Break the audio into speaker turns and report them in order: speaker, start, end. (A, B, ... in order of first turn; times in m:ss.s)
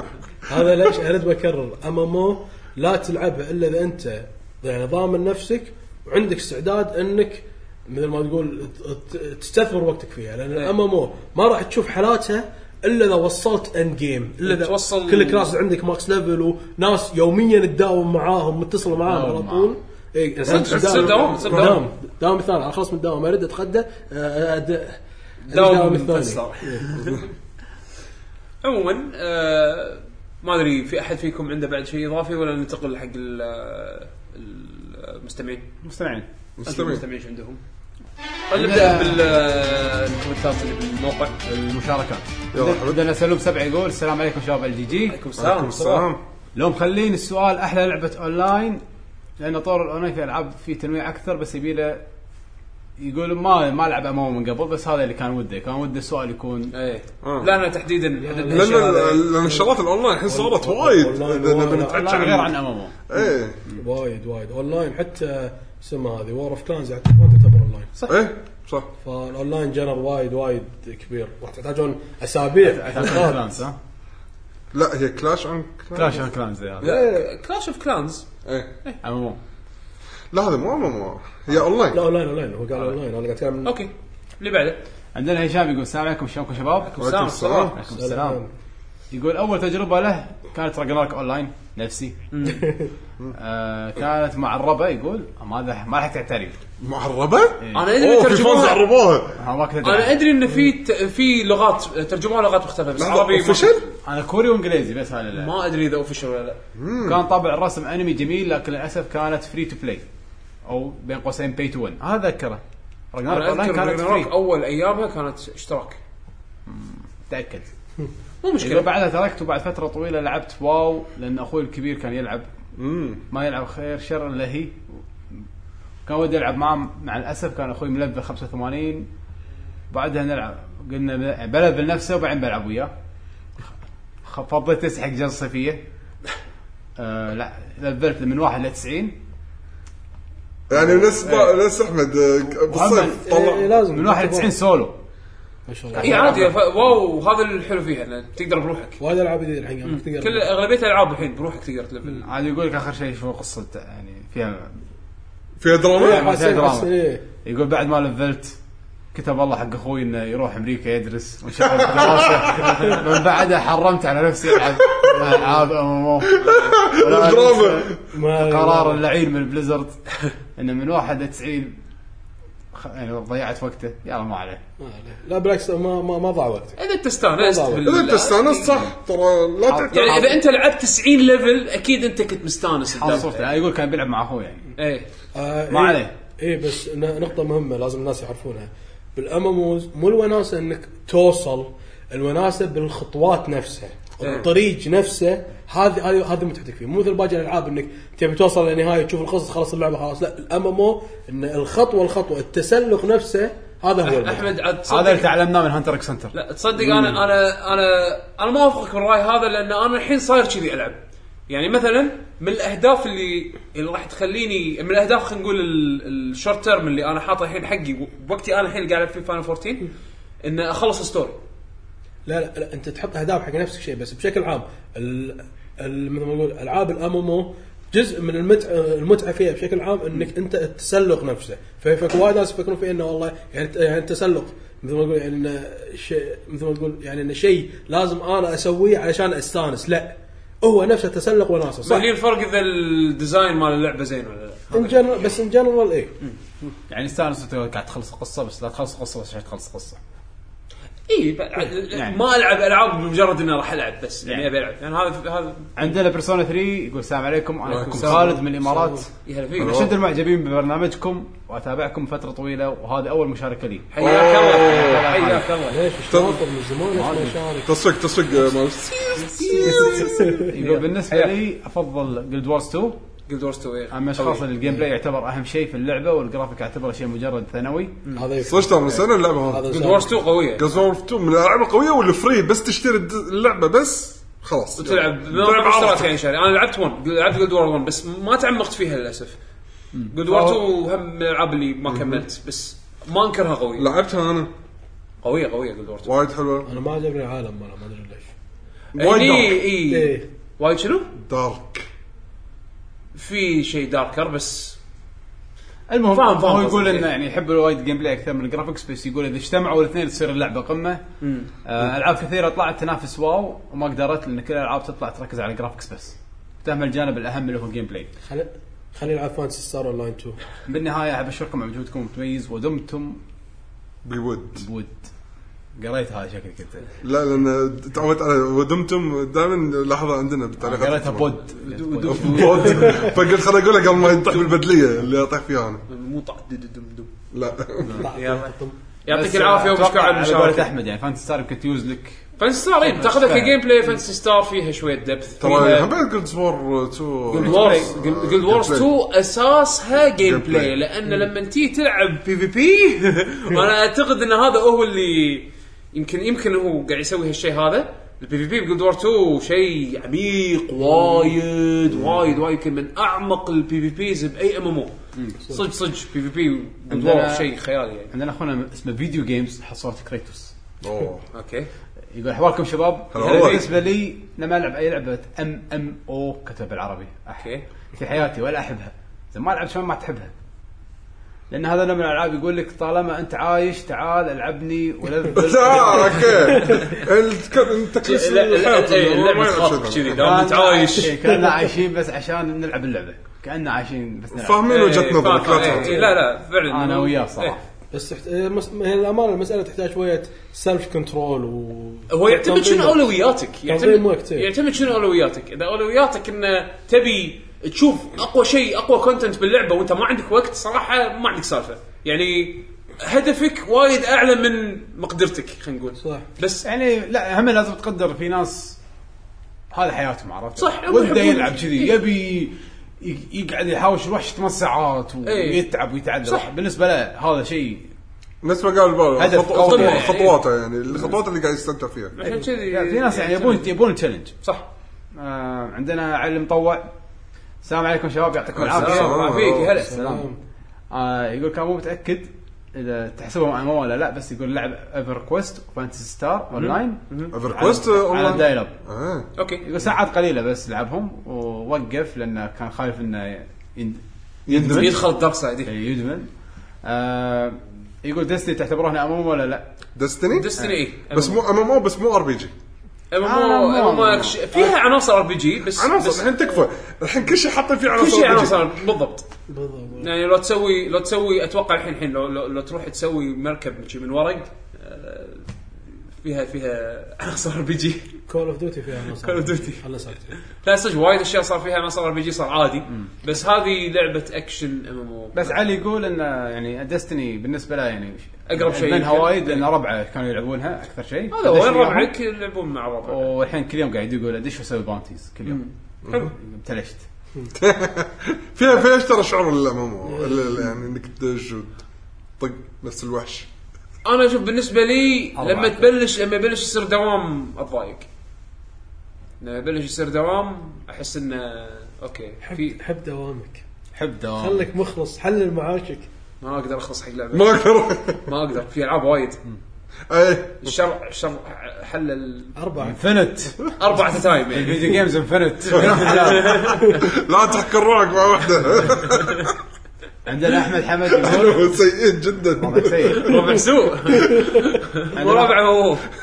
0:00.5-0:25.0 A
0:14.4-0:15.5 B
0:19.0-0:19.7 C
0:20.4-0:21.8 B
0:20.5-0:21.8 D
0:25.5-0:27.2 B
0:25.5-0:26.9 A
0:28.6-0:35.7 B
0:35.8-0:36.2 C
0:36.6-0:37.0 D
0:36.6-0:37.6 B
0:38.5-0:41.4 B
0:38.5-0:39.2 C
0:41.4-0:45.2 C
0:42.5-0:43.0 D
0:45.1-0:46.1 B
0:45.4-0:46.2 D
0:46.5-0:48.8 C
0:49.4-0:52.0 C
0:53.0-0:56.7 C
0:56.7-0:59.1 B
0:57.2-0:57.5 D
0:58.2-0:59.7 A
0:58.5-1:02.5 D
1:00.2-1:02.4 A
1:01.8-1:03.0 C
1:03.1-1:03.6 D
1:03.1-1:07.9 A
1:08.1-1:08.9 D
1:09.0-1:13.4 A
1:12.6-1:13.8 C
1:14.7-1:16.2 D
1:15.9-1:16.9 C
1:16.8-1:18.2 B
1:16.8-1:17.2 A
1:18.4-1:18.7 D
1:19.0-1:19.4 C
1:20.3-1:22.0 D
1:21.9-1:23.7 A
1:23.6-1:24.8 B
1:25.1-1:26.9 C
1:26.8-1:27.7 B
1:27.0-1:27.8 D
1:27.7-1:28.4 C
1:28.0-1:28.5 A
1:29.1-1:32.2 C
1:32.3-1:32.6 B
1:32.4-1:32.9 A
1:33.3-1:36.6 C
1:36.8-1:39.4 D
1:37.6-1:37.9 C
1:37.7-1:38.8 B
1:39.4-1:40.2 C
1:39.8-1:43.8 B
1:43.0-1:43.8 D
1:44.0-1:45.5 C
1:45.3-1:46.6 B
1:46.8-1:47.2 D
1:47.0-1:50.0 C
1:50.6-1:52.6 C
1:53.1-1:54.3 C
1:53.3-1:56.0 B
1:56.7-1:57.7 C
1:58.4-1:58.9 B
1:58.6-2:02.5 C
2:02.7-2:03.2 D
2:03.3-2:04.8 C
2:06.0-2:09.1 C
2:09.9-2:12.9 C
2:14.2-2:15.8 C
2:17.0-2:19.1 C
2:20.7-2:23.8 D
2:21.0-2:21.5 C
2:22.7-2:23.3 C
2:23.2-2:24.5 A
2:23.9-2:25.0 C
2:25.7-2:26.4 A
2:25.9-2:26.5 C
2:26.0-2:29.0 B
2:29.0-2:30.5 A
2:29.8-2:32.3 B
2:32.2-2:34.8 C
2:35.6-2:36.3 D
2:35.9-2:37.2 A
2:35.9-2:36.9 C
2:37.4-2:38.6 C
2:39.1-2:50.0 C
2:41.8-2:42.9 D
2:44.9-2:45.4 D
2:46.2-2:48.0 D
2:46.4-2:46.7 B
2:48.1-2:49.0 A
2:50.6-2:51.8 C
2:52.7-2:54.6 C
2:54.8-2:56.8 A
2:56.8-2:58.9 B
2:57.4-2:57.8 A
2:57.8-3:00.3 D
2:59.7-3:00.4 C
2:59.9-3:03.5 B
3:02.9-3:04.7 C
3:04.8-3:05.1 B
3:05.3-3:24.5 A
3:05.7-3:06.1 C
3:14.2-3:14.5 B
3:24.0-3:25.3 B
3:24.9-3:27.2 C
3:26.3-3:39.9 B
3:40.4-3:41.4 B
3:42.2-4:02.1 A
4:01.8-4:05.0 B
4:04.7-4:06.1 A
4:06.9-4:10.0 C
4:11.1-4:15.9 B
4:11.9-4:12.2 C
4:15.8-4:25.5 C
4:17.6-4:18.1 D
4:18.0-4:18.3 B
4:18.0-4:19.0 A
4:19.2-4:19.8 B
4:19.6-4:20.0 D
4:23.9-4:25.8 B
4:24.0-4:25.1 D
4:25.7-4:27.7 A
4:26.1-4:26.4 D
4:26.9-4:27.4 C
4:27.6-4:30.4 D
4:29.4-4:33.0 C
4:29.4-4:29.9 B
4:29.8-4:30.5 A
4:30.5-4:31.3 B
4:33.3-4:34.5 B
4:33.9-4:38.0 C
4:38.1-4:40.2 A
4:38.4-4:39.8 D
4:39.7-4:40.6 B
4:40.5-4:46.1 D
4:44.8-4:49.4 B
4:49.9-4:50.5 C
4:50.1-4:53.9 B
4:51.9-4:52.2 D
4:53.8-4:54.5 D
4:55.2-4:56.1 B
4:56.0-4:56.7 D
4:56.6-4:58.3 A
4:58.9-4:59.7 D
4:58.9-5:01.1 B
4:59.8-5:00.2 A
5:01.2-5:01.9 D
5:03.1-5:04.8 B
5:05.9-5:11.0 C
5:06.1-5:07.1 B
5:11.2-5:11.5 B
5:11.6-5:18.1 C
5:18.3-5:20.4 A
5:20.6-5:23.2 C
5:24.0-5:24.6 D
5:24.6-5:25.1 C
5:25.8-5:26.8 C
5:27.0-5:31.4 D
5:30.6-5:33.1 C
5:31.6-5:32.9 B
5:32.0-5:35.8 D
5:35.9-5:37.1 B
5:37.3-5:38.1 D
5:38.0-5:38.8 A
5:38.1-5:38.5 B
5:39.0-5:40.7 B
5:39.1-5:43.6 C
5:42.4-5:45.9 B
5:45.4-5:48.9 D
5:47.3-6:04.9 B
5:47.3-5:47.9 C
5:50.2-5:50.7 D
6:05.5-6:08.1 B
6:06.9-6:07.5 C
6:08.1-6:10.5 C
6:10.8-6:11.2 D
6:11.3-6:11.7 B
6:12.1-6:20.3 C
6:13.1-6:13.6 D
6:13.2-6:13.6 B
6:21.5-6:26.7 C
6:25.3-6:30.4 D
6:28.0-6:31.1 B
6:30.1-6:34.6 C
6:31.2-6:31.6 A
6:34.3-6:36.0 D
6:34.6-6:37.6 B
6:35.5-6:36.0 C
6:35.6-6:36.1 A
6:36.7-6:37.6 C
6:37.9-6:43.1 A
6:42.1-6:56.6 B
6:43.7-6:44.5 A
6:56.6-6:58.8 C
6:59.7-7:07.9 C
7:00.6-7:02.0 B
7:05.2-7:05.6 B
7:08.4-7:12.1 D
7:09.2-7:10.1 C
7:09.5-7:10.4 B
7:12.2-7:13.7 B
7:12.2-7:14.4 C
7:15.2-7:16.9 C
7:17.6-7:19.3 C
7:18.5-7:20.2 B
7:18.6-7:19.8 D
7:19.8-7:20.4 A
7:19.8-7:20.2 C
7:20.9-7:28.7 C
7:26.5-7:27.3 B
7:27.3-7:29.2 D
7:29.4-7:29.6 B
7:29.6-7:35.0 C
7:34.5-7:35.0 D
7:34.6-7:35.7 B
7:35.6-7:36.3 C
7:36.8-7:39.7 C
7:40.0-7:40.5 D
7:40.3-7:41.4 B
7:41.1-7:42.5 D
7:43.1-7:46.3 B
7:43.2-7:44.7 C
7:45.7-7:48.7 D
7:47.9-7:49.3 B
7:49.5-7:50.1 A
7:50.0-7:55.5 B
7:56.2-7:58.2 B
7:58.3-8:00.3 A
7:59.2-8:05.6 B
8:05.3-8:12.1 C
8:08.5-8:09.6 B
8:11.3-8:13.3 B
8:13.1-8:15.6 C
8:15.4-8:16.3 B
8:16.0-8:16.3 D
8:16.2-8:17.0 C
8:17.6-8:21.8 D
8:20.1-8:20.6 A
8:22.4-8:23.5 D
8:24.0-8:28.1 B
8:25.4-8:25.9 C
8:29.4-8:32.8 B
8:32.4-8:33.6 A
8:33.9-8:34.7 C
8:34.4-8:36.1 A
8:36.4-8:39.4 B
8:37.3-8:38.2 D
8:40.1-8:40.8 D
8:40.6-8:42.5 B
8:42.6-8:43.0 A
8:42.8-8:43.8 C
8:43.8-8:44.9 B
8:44.5-8:47.0 C
8:45.7-8:49.5 D
8:45.8-8:47.0 B
8:50.2-8:51.8 C
8:51.1-8:53.6 D
8:52.6-8:53.4 C
8:53.2-8:56.0 B
8:55.1-8:55.6 C